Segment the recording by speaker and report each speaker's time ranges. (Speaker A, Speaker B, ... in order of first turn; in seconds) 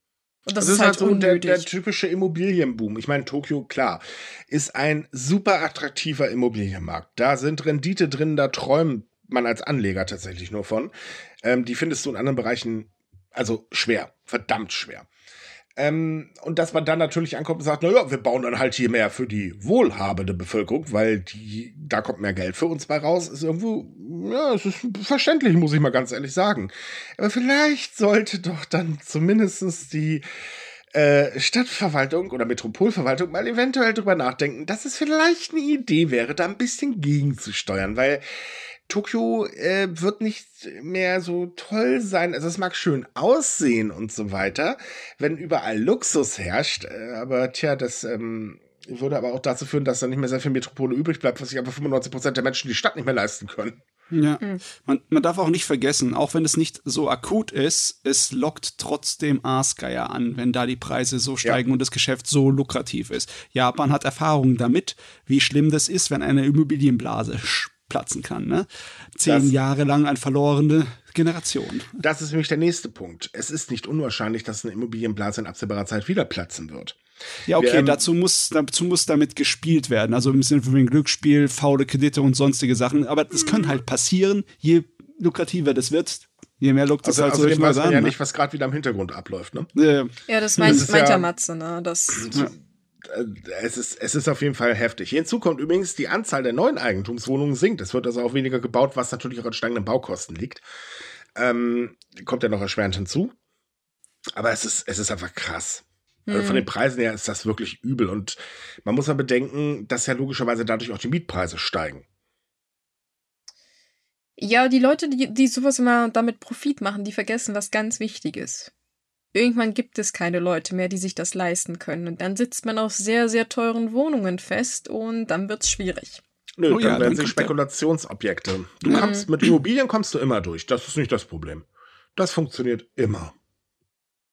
Speaker A: 0.5-1.7, 90.3-92.5, 106.3-106.7, 114.4-118.7, 119.3-126.2, 128.9-129.3
Speaker B: 0.6-10.9, 11.4-15.1, 15.8-30.2, 30.9-38.2, 38.9-53.8, 69.3-69.5, 72.0-77.0, 77.5-78.0, 87.0-89.7, 90.6-91.3, 92.2-92.5, 93.0-100.6, 101.3-103.3, 104.4-112.0, 126.6-133.3
Speaker C: 54.1-71.9, 77.5-88.2, 89.8-90.8, 126.7-127.5, 128.9-129.5